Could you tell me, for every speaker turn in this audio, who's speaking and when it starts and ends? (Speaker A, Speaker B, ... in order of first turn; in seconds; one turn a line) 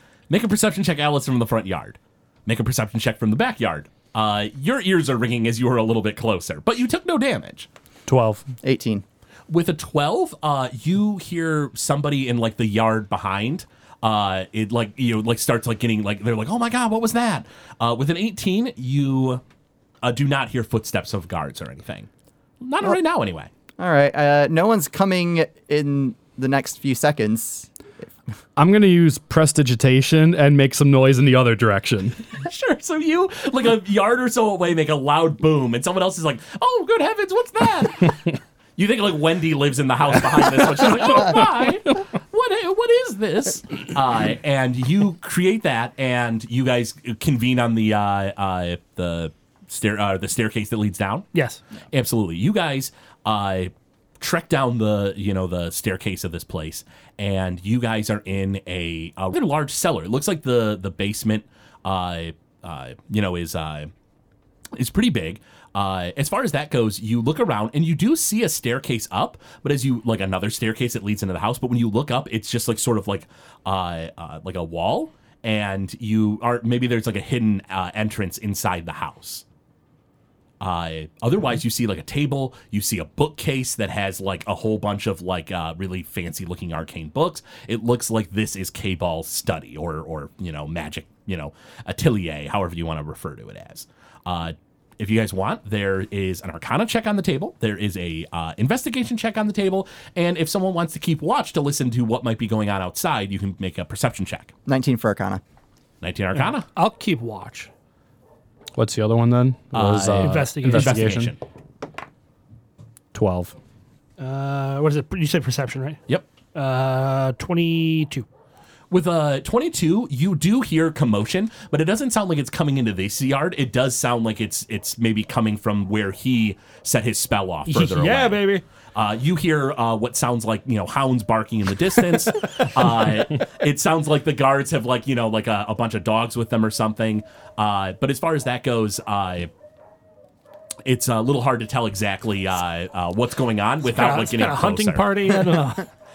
Speaker A: 0.3-7.7
Speaker B: 8.1-8.4
Speaker C: 8.6-9.0
Speaker A: 9.5-19.4
Speaker A: 20.0-22.1
Speaker A: 22.6-23.5
Speaker C: 23.8-27.7
Speaker B: 28.6-32.2
Speaker A: 32.4-51.3
Speaker D: 51.3-51.6
Speaker A: 51.9-63.9
Speaker A: 64.7-79.4
Speaker A: 80.6-104.5
Speaker C: 104.7-105.4
Speaker A: 106.0-106.7
Speaker D: 106.4-107.7
Speaker B: 108.7-111.3
Speaker A: 109.7-111.4
Speaker D: 110.2-111.3
Speaker B: 113.1-113.5
Speaker D: 114.2-116.0
Speaker D: 116.5-118.2
Speaker A: 118.9-128.4
Speaker D: 127.7-128.6
Speaker A: 128.9-139.5
Speaker A: 140.8-145.6
Speaker D: 143.8-145.9